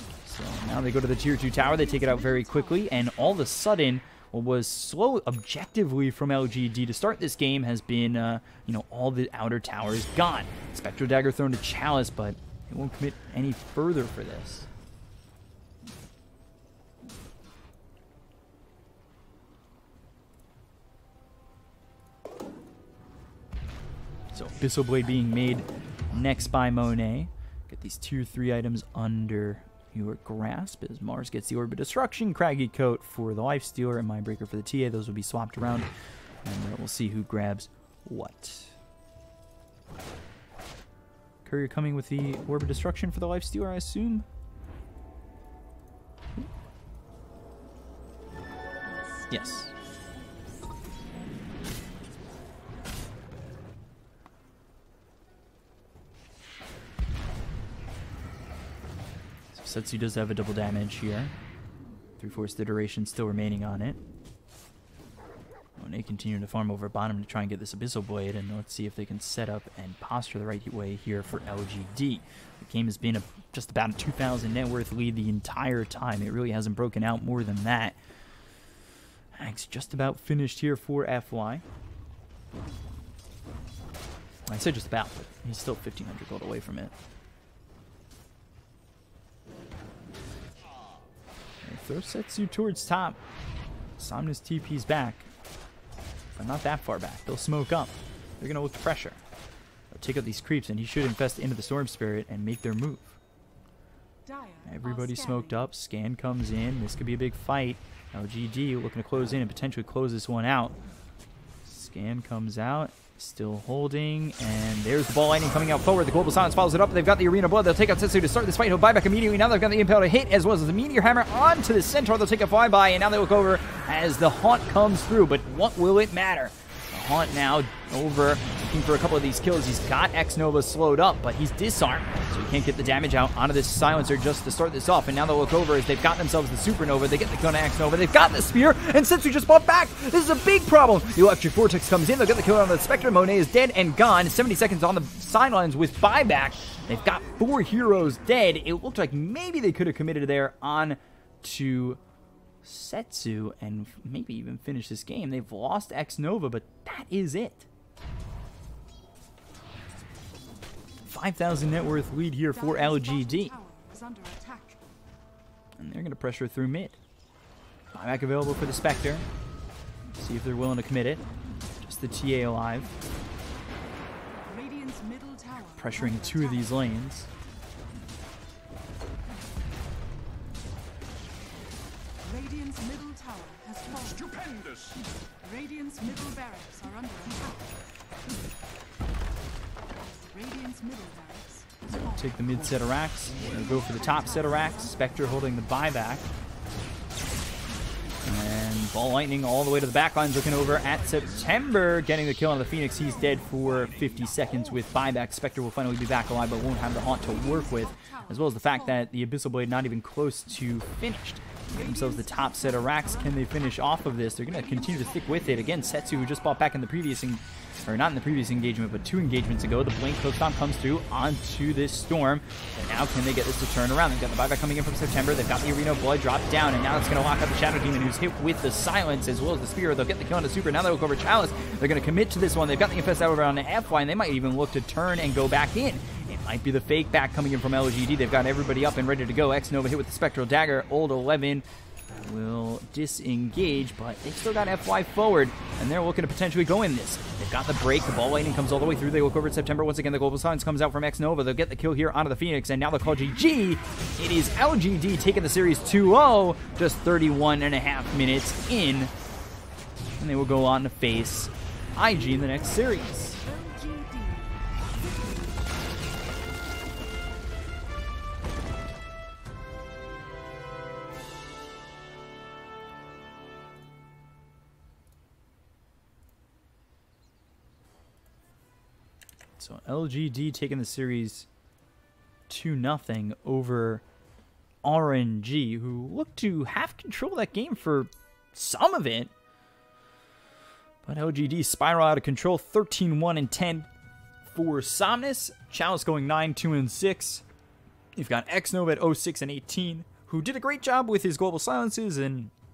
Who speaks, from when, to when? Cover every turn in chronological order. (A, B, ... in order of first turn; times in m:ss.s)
0:00.2-0:14.7 A
0:01.3-0:03.3 B
0:24.3-0:35.9 A
0:36.4-0:38.7 A
0:41.4-0:44.2 A
0:48.9-0:49.7 B
0:49.3-0:49.7 A
0:59.5-1:01.3 A
1:02.2-1:04.0 A
1:05.8-1:18.0 A
1:19.3-1:21.6 A
1:24.5-1:26.9 A
1:31.6-1:33.2 A
1:34.0-1:35.3 A
1:36.3-1:39.2 A
1:39.9-1:43.2 A
1:44.2-1:45.7 B
1:44.6-1:50.8 A
1:51.6-2:32.0 A
2:32.6-2:37.7 A
2:41.1-2:43.5 A
2:42.5-2:44.9 B
2:45.8-2:47.0 A
2:47.9-2:49.2 A
2:50.2-2:51.2 A
2:51.8-2:52.9 A
2:54.4-2:56.8 B
2:55.8-2:57.3 A
3:02.2-3:04.8 B
3:05.4-3:07.8 B
3:10.0-3:12.6 B
3:11.9-3:16.3 A
3:13.4-3:15.8 B
3:18.2-4:01.6 A
3:27.0-3:29.1 B
3:31.7-3:36.4 B
4:02.2-4:19.1 A
4:20.2-4:23.4 A
4:22.4-4:24.6 B
4:39.6-4:41.5 A
4:42.5-4:44.0 A
4:44.8-4:49.3 A
4:51.0-4:53.9 A
4:54.5-4:57.4 A
4:58.2-5:02.5 A